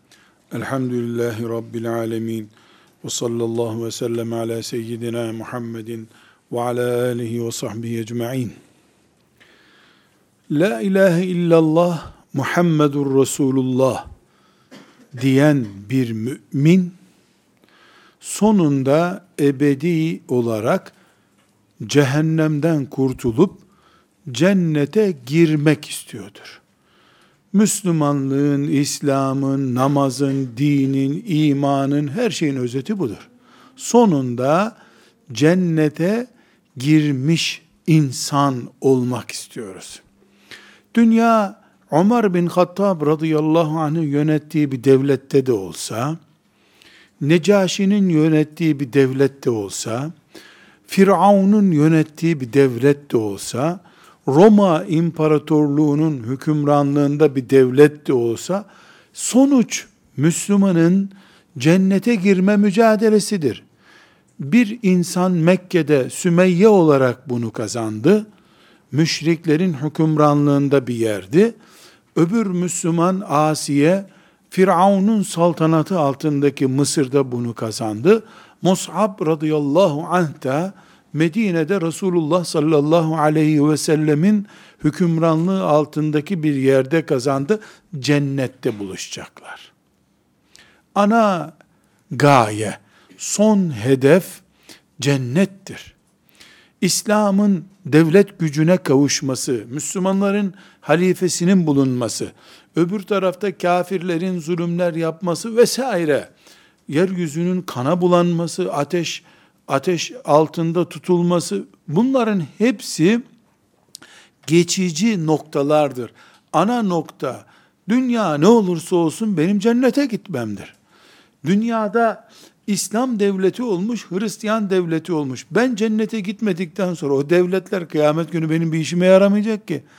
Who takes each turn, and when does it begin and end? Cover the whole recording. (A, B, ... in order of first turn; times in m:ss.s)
0:00.5-0:02.5 A
0:03.0-0:08.6 A
0:10.5-0:14.1 A
0:15.2-0:17.0 A
0:18.2-0:21.0 A
0:21.8-0:23.6 A
0:24.3-0:26.6 A
0:27.5-0:34.8 A
0:35.3-0:40.0 A
0:40.9-0:46.2 A
0:47.2-0:50.1 A
0:50.9-1:03.6 A
1:04.4-1:08.3 A
1:08.9-1:11.6 A
1:12.2-1:29.7 A
1:31.0-1:31.6 A
1:32.1-1:34.4 A
1:35.0-1:36.0 A
1:36.8-1:46.3 A
1:46.9-1:53.2 A
1:54.5-2:00.8 A
2:01.4-2:09.8 A